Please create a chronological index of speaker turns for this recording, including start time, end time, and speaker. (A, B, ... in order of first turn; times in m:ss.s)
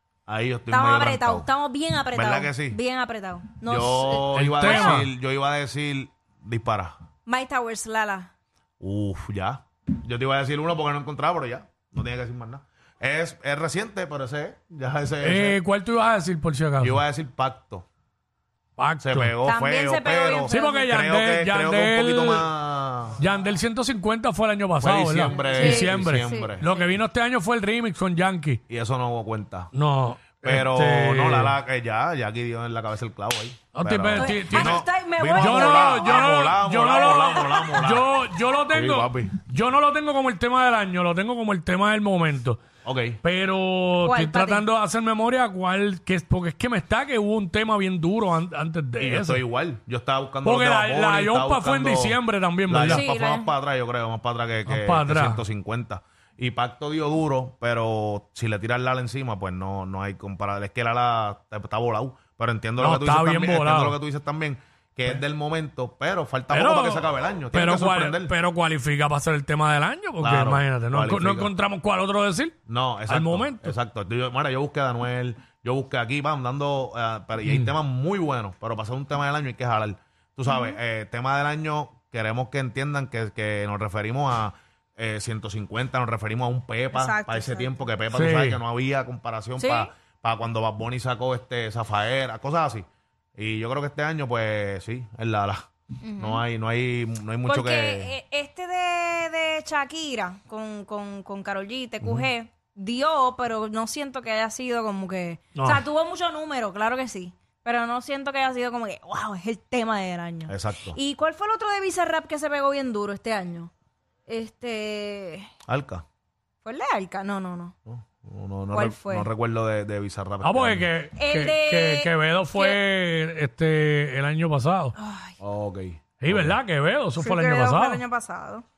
0:00.3-0:01.5 A
0:00.7-0:05.0 B
0:02.1-0:02.8 A
0:03.7-0:06.9 A
0:04.3-0:05.1 C
0:07.2-0:08.3 B
0:08.8-0:15.6 A
0:15.2-0:17.0 C
0:16.8-0:17.8 A
0:18.8-0:19.4 C
0:19.0-0:23.2 A
0:19.4-0:20.8 B
0:20.5-0:22.5 C
0:23.2-0:28.6 C
0:24.8-0:26.6 A
0:25.4-0:27.0 B
0:28.7-0:29.7 A
0:29.7-0:31.6 C
0:30.4-0:38.1 A
0:33.7-0:42.6 C
0:34.1-0:38.2 B
0:38.7-0:39.3 A
0:42.8-0:43.2 A
0:43.2-0:49.4 C
0:44.0-0:44.6 B
0:49.0-1:08.3 A
0:50.4-0:53.1 C
0:52.8-0:53.5 B
0:54.7-0:55.4 C
1:02.8-1:04.0 C
1:06.5-1:12.6 C
1:10.2-1:11.5 A
1:12.7-1:32.8 A
1:13.1-1:13.7 C
1:17.4-1:17.7 C
1:20.5-1:20.8 B
1:26.9-1:27.7 B
1:28.1-1:28.6 C
1:29.6-1:29.9 B
1:33.4-1:38.1 A
1:36.0-1:36.4 B
1:37.4-1:53.7 B
1:42.0-1:42.3 A
1:45.5-1:45.8 C
1:50.5-1:51.0 A
1:54.3-1:55.5 B
1:55.7-1:56.0 A
1:56.6-1:57.7 B
1:57.8-2:00.9 A
1:58.7-1:59.3 B
2:00.4-2:04.9 C
2:01.1-2:02.8 B
2:05.0-2:05.4 B
2:05.4-2:06.6 A
2:06.2-2:08.0 C
2:07.2-2:08.6 B